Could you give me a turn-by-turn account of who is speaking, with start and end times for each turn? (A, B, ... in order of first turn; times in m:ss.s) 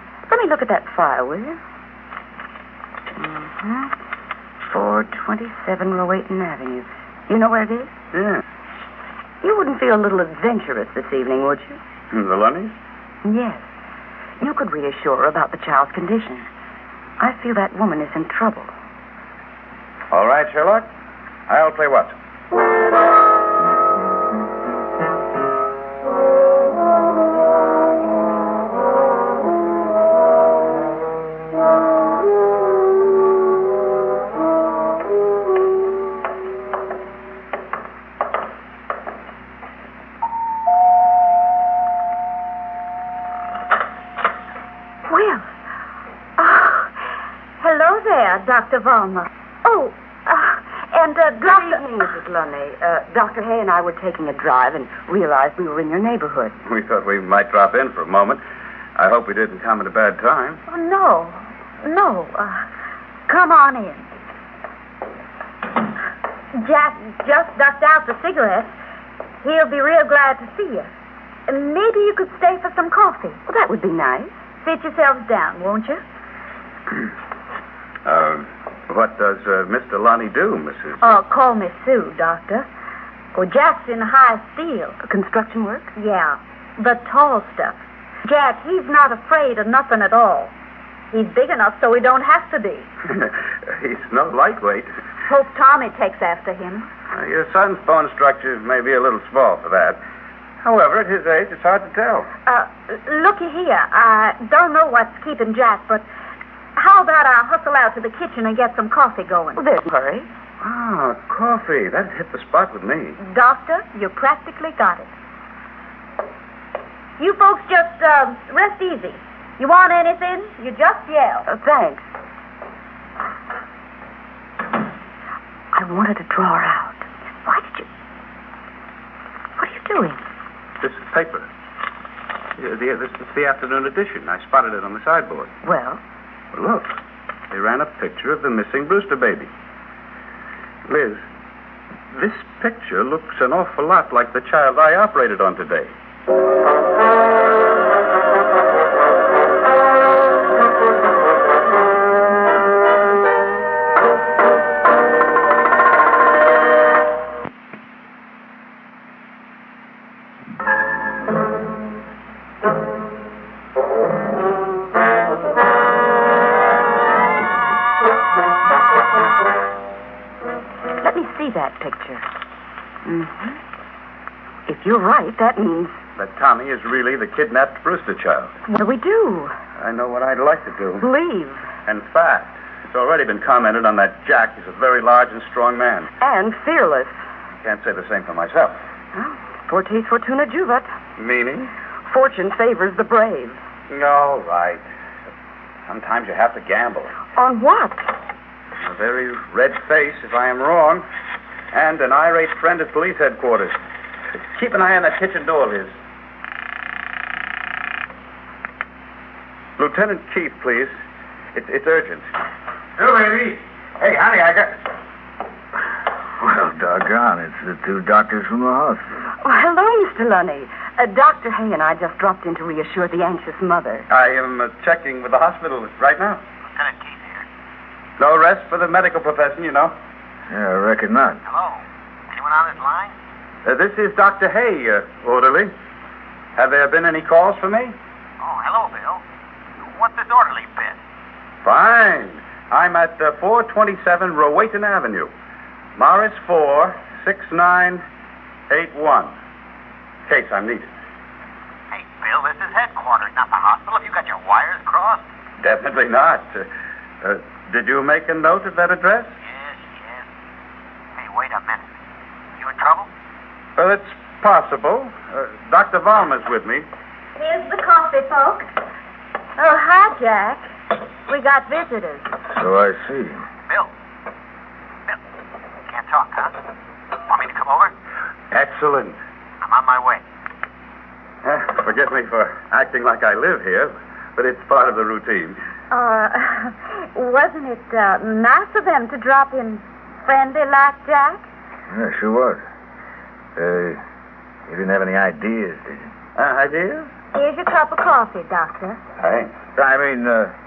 0:00.3-0:01.6 A
0:03.2-0:04.0 A
0:04.6-0:08.0 A
0:08.1-0:08.4 B
0:09.4-0:11.8 A
0:12.1-0:12.8 B
0:13.2-0:13.7 A
0:14.4-0:16.5 A
0:17.2-0:18.7 A
0:20.1-0:20.9 B
0:21.5-0:22.2 B
0:45.1-0:45.4 C
0:46.4-0:47.0 C
0:47.6-0:51.9 C
0:51.4-0:56.6 A
0:56.7-0:58.4 B
0:59.0-1:00.6 B
1:00.7-1:02.7 C
1:03.3-1:04.1 C
1:06.6-1:08.7 C
1:09.4-1:10.9 C
1:11.5-1:13.4 C
1:13.5-1:14.3 A
1:14.6-1:16.0 C
1:18.1-1:21.2 B
1:21.0-1:22.7 C
1:23.4-1:25.0 C
1:25.0-1:25.9 A
1:26.0-1:30.5 C
1:31.1-1:32.9 C
1:33.1-1:34.9 B
1:35.3-1:36.9 C
1:37.1-1:40.0 B
1:40.6-1:42.3 B
1:42.4-1:46.1 C
1:46.8-1:49.6 C
1:49.6-1:50.3 A
1:50.6-1:53.2 B
1:53.2-1:55.1 C
1:57.2-2:01.5 C
2:01.5-2:02.0 A
2:05.7-2:07.9 A
2:09.6-2:10.2 A
2:10.8-2:11.5 B
2:12.6-2:15.5 B
2:15.6-2:16.0 A
2:16.5-2:16.9 B
2:17.5-2:19.5 B
2:20.9-2:21.2 B
2:22.1-2:25.9 B
2:51.0-2:52.3 A
2:53.0-2:53.6 A
2:54.7-2:56.0 A
2:56.2-2:58.6 B
2:58.7-2:59.6 A
2:59.8-3:01.1 B
3:01.0-3:01.6 A
3:01.9-3:06.1 B
3:06.2-3:07.1 A
3:07.6-3:08.8 B
3:09.1-3:10.9 A
3:11.2-3:11.7 B
3:12.1-3:13.6 A
3:13.9-3:14.8 B
3:15.9-3:17.2 B
3:17.4-3:18.2 A
3:18.8-3:21.0 B
3:21.7-3:23.8 B
3:24.4-3:25.9 B
3:29.8-3:30.9 B
3:31.5-3:32.3 B
3:33.0-3:34.8 B
3:36.4-3:39.0 D
3:39.4-3:44.1 A
3:44.1-3:46.4 B
3:46.8-3:47.4 E
3:48.2-3:50.0 B
3:50.5-3:51.4 D
3:51.5-3:53.1 E
3:53.6-3:55.7 B
3:56.6-3:58.0 B
3:58.4-3:59.2 E
3:59.8-4:01.0 E
4:01.6-4:05.3 B
4:06.0-4:08.0 B
4:08.7-4:09.4 B
4:10.3-4:10.9 B
4:11.9-4:15.2 E
4:15.6-4:16.7 B
4:17.2-4:19.3 B
4:19.5-4:20.2 E
4:21.2-4:21.8 E
4:22.6-4:23.1 E
4:23.8-4:26.9 B
4:27.4-4:28.7 C
4:29.6-4:30.7 C
4:31.3-4:32.3 C
4:32.5-4:33.4 D
4:35.9-4:36.5 E
4:37.3-4:37.9 E
4:38.5-4:39.2 B
4:39.6-4:40.2 E
4:41.4-4:45.6 B
4:45.9-4:51.4 C
4:51.9-4:52.6 D
4:53.6-4:54.0 D
4:54.7-4:56.1 D
4:56.4-4:57.1 B
4:57.3-4:59.0 C
4:59.2-4:59.5 B
4:59.8-5:00.5 D